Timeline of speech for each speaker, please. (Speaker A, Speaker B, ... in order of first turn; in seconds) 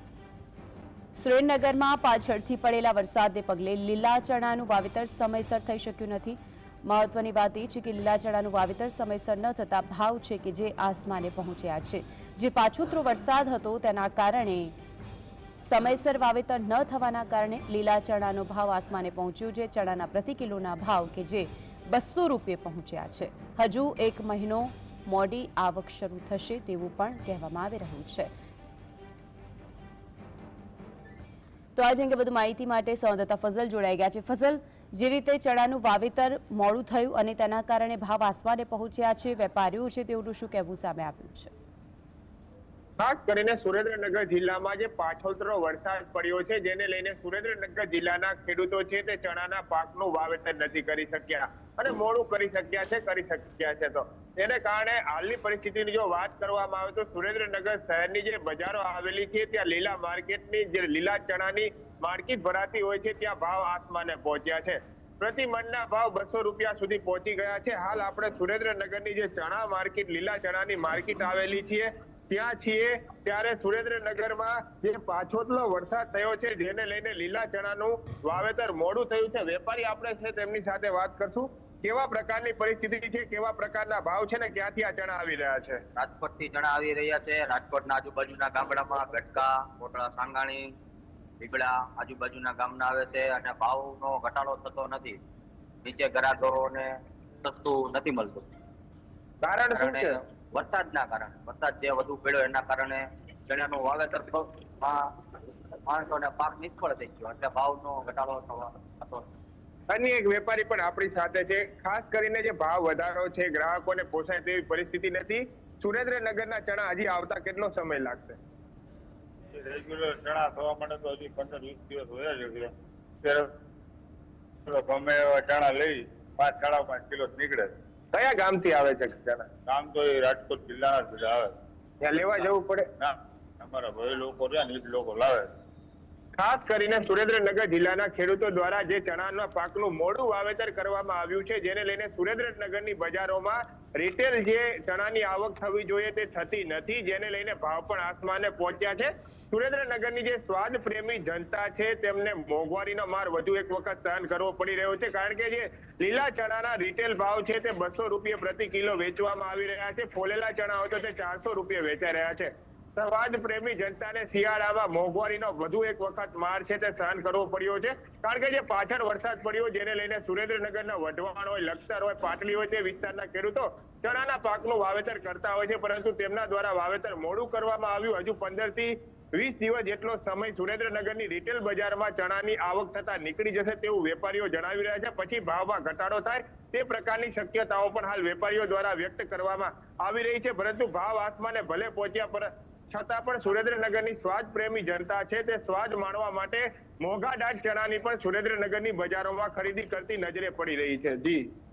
Speaker A: 1.1-14.7, 15.6-28.3, 31.8-41.5
Speaker B: 43.0-85.8, 99.4-100.2, 109.9-118.4, 128.1-129.5, 132.0-132.9, 136.3-201.4
Speaker C: 86.0-90.7, 91.4-95.2, 95.8-96.9, 97.4-98.5, 99.7-105.1, 105.8-109.2
Speaker D: 119.6-122.7, 123.2-123.5, 124.7-127.7, 129.7-131.5, 132.3-135.5